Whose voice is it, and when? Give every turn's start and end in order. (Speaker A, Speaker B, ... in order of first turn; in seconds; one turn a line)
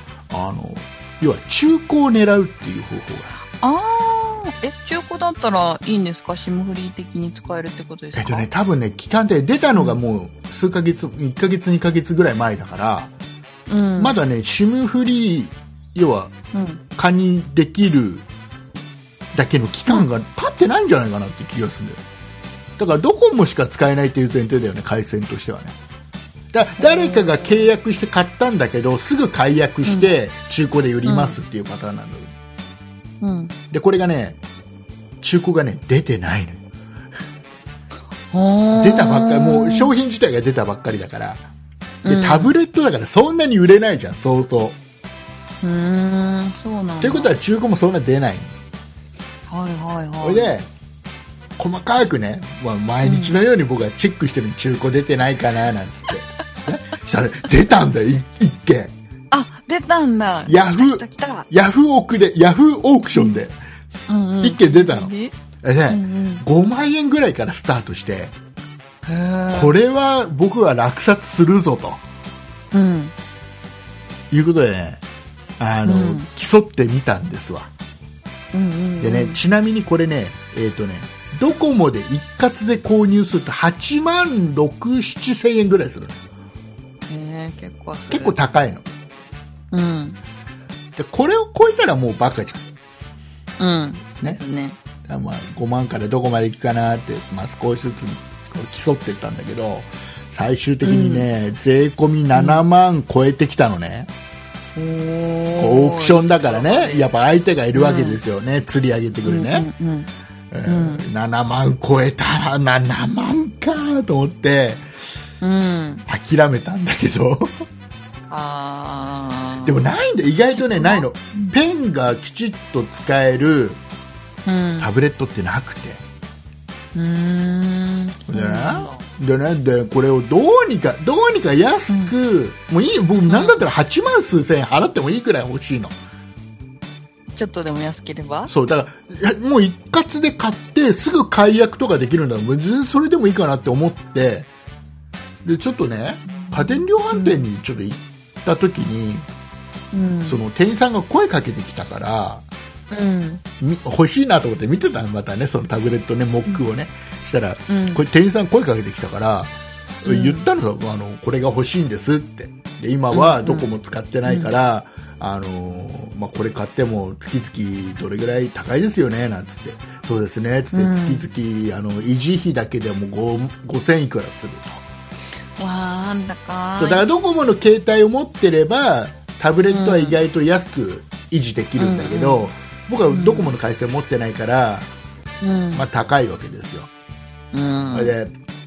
Speaker A: 0.3-3.3
Speaker B: 3.5-8.4
Speaker A: 8.1-13.1
Speaker B: 13.7-14.2
Speaker A: 14.0-16.3
Speaker B: 16.5-16.8
Speaker A: 16.9-18.2
Speaker A: 19.3-22.0
Speaker A: 22.8-25.8
Speaker A: 26.5-32.3
Speaker B: 26.8-27.7
Speaker B: 29.8-30.1
Speaker B: 31.0-31.4
Speaker B: 33.2-33.5
Speaker A: 33.7-34.4
Speaker A: 35.2-36.6
Speaker B: 38.3-39.9
Speaker A: 38.8-41.4
Speaker B: 42.0-42.5
Speaker A: 42.0-44.8
Speaker B: 45.6-47.3
Speaker A: 47.0-48.5
Speaker B: 49.5-50.5
Speaker A: 50.2-50.7
Speaker A: 51.6-58.9
Speaker B: 53.0-53.4
Speaker B: 59.3-61.5
Speaker A: 60.5-63.5
Speaker B: 63.1-63.4
Speaker B: 64.1-65.3
Speaker A: 64.4-68.3
Speaker B: 65.9-66.4
Speaker B: 69.0-69.8
Speaker A: 69.5-72.0
Speaker B: 72.7-73.1
Speaker A: 74.3-75.0
Speaker A: 75.6-77.7
Speaker B: 75.8-76.3
Speaker B: 78.5-79.4
Speaker A: 79.0-86.2
Speaker B: 87.1-88.4
Speaker A: 88.1-88.8
Speaker B: 89.7-90.2
Speaker A: 91.0-92.7
Speaker B: 93.6-94.8
Speaker A: 95.0-104.1
Speaker B: 100.8-101.3
Speaker B: 102.3-102.6
Speaker B: 104.8-107.0
Speaker A: 105.5-109.7
Speaker B: 107.7-108.2
Speaker B: 109.2-110.1
Speaker A: 110.5-114.8
Speaker B: 110.7-111.0
Speaker B: 115.4-116.0
Speaker A: 116.1-117.6
Speaker B: 118.3-119.9
Speaker A: 119.6-123.8
Speaker B: 120.6-121.5
Speaker B: 124.5-124.9
Speaker A: 124.8-126.0
Speaker B: 126.9-129.0
Speaker A: 128.3-136.0
Speaker B: 131.9-132.1
Speaker B: 133.3-133.6
Speaker B: 137.3-138.5
Speaker A: 138.5-144.5
Speaker A: 145.4-149.3
Speaker B: 146.3-147.5
Speaker B: 149.9-150.4
Speaker A: 150.2-152.4
Speaker B: 152.9-153.4
Speaker A: 153.6-174.8
Speaker B: 157.7-158.0
Speaker B: 160.1-160.4
Speaker B: 163.1-163.7
Speaker B: 170.7-171.2
Speaker B: 175.6-177.1
Speaker A: 176.8-184.9
Speaker B: 179.7-180.2
Speaker B: 181.8-182.5
Speaker B: 183.1-183.5
Speaker B: 185.4-185.8
Speaker A: 185.7-186.9
Speaker B: 187.5-188.1
Speaker A: 187.9-188.3